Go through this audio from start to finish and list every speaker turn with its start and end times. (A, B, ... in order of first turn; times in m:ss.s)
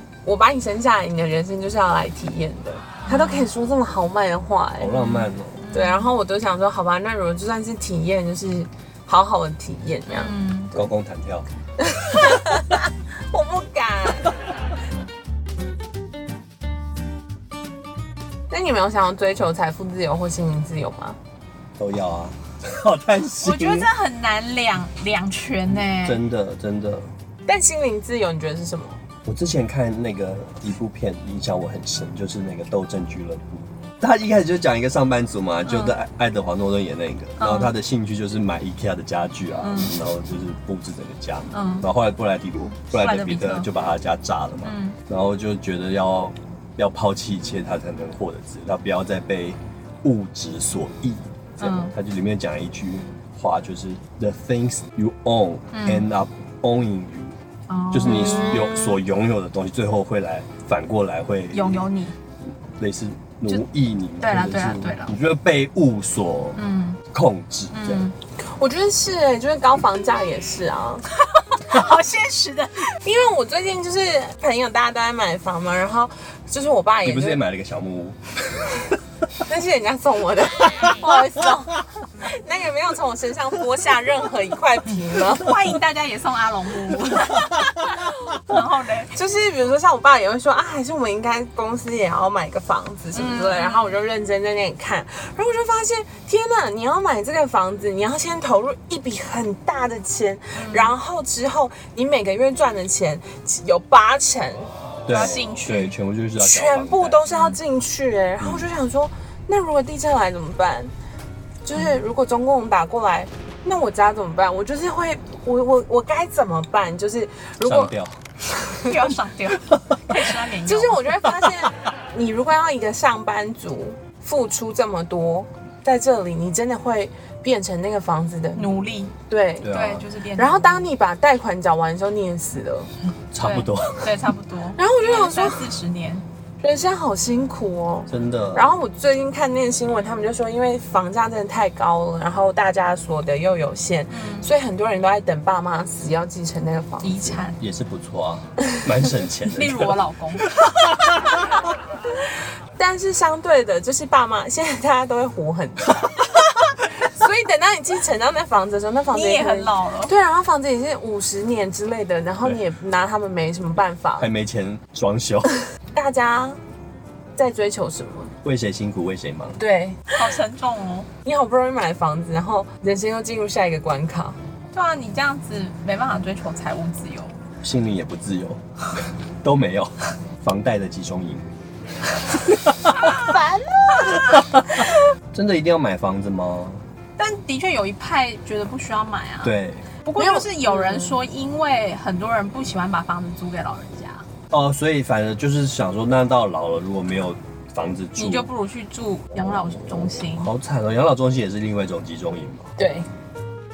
0:00.2-0:05.0 A
0:03.1-0:03.5 B
0:04.8-0:05.6 C
0:04.9-0:06.1 B
0:05.7-0:10.4 A
0:10.1-0:10.8 B
0:10.7-0:11.5 C
0:11.8-0:14.3 A
0:18.5-0:21.2 A
0:21.8-0:23.9 C
0:23.4-0:26.2 B
0:25.7-0:27.1 C
0:27.5-0:29.0 A
0:29.2-0:57.4 C
0:35.7-0:36.0 B
0:37.4-0:37.7 B
0:39.6-0:40.0 B
0:41.5-0:41.9 B
0:42.9-0:43.7 B
0:44.6-0:45.0 B
0:51.6-0:51.9 B
0:55.7-0:56.1 B
0:57.7-0:58.9 B
0:57.9-1:01.9 C
1:01.5-1:02.2 B
1:02.8-1:08.1 C
1:04.2-1:05.1 B
1:06.6-1:07.0 B
1:07.7-1:08.1 B
1:08.4-1:11.1 A
1:11.2-1:13.0 B
1:13.0-1:17.4 A
1:17.0-1:18.8 C
1:19.5-1:25.5 A
1:25.4-1:29.1 B
1:29.1-1:44.7 A
1:33.1-1:34.0 B
1:40.6-1:41.0 B
1:45.1-1:47.2 C
1:45.1-1:45.9 B
1:46.4-1:50.9 A
1:47.3-1:47.6 B
1:48.4-1:48.7 C
1:51.6-1:58.0 A
1:57.6-1:58.2 C
1:58.6-1:58.9 A
1:58.8-2:01.2 B
2:00.7-2:08.7 A
2:08.6-2:10.9 B
2:09.3-2:09.7 A
2:09.6-2:10.1 C
2:10.4-2:12.9 A
2:13.3-2:14.1 C
2:13.4-2:16.2 B
2:14.8-2:15.6 A
2:16.6-2:27.5 A
2:18.1-2:18.7 C
2:24.1-2:24.5 B
2:27.0-2:27.6 B
2:27.6-2:31.4 C
2:29.5-2:30.5 B
2:32.8-2:36.2 A
2:37.0-2:44.3 A
2:39.1-2:40.1 B
2:44.2-2:45.5 C
2:46.0-2:46.6 A
2:47.4-2:48.3 A
2:48.4-2:49.6 C
2:49.6-2:50.2 A
2:50.1-2:51.1 B
2:51.2-2:54.4 A
2:54.7-2:57.4 B
2:57.6-3:01.5 C
3:02.3-3:03.1 C
3:02.9-3:03.4 B
3:03.2-3:04.2 A
3:03.9-3:04.2 B
3:04.2-3:06.8 C
3:07.2-3:09.5 B
3:09.4-3:09.9 C
3:10.0-3:14.3 B
3:10.2-3:11.2 A
3:14.5-3:18.5 C
3:18.2-3:20.5 B
3:20.3-3:22.7 C
3:22.8-3:23.1 A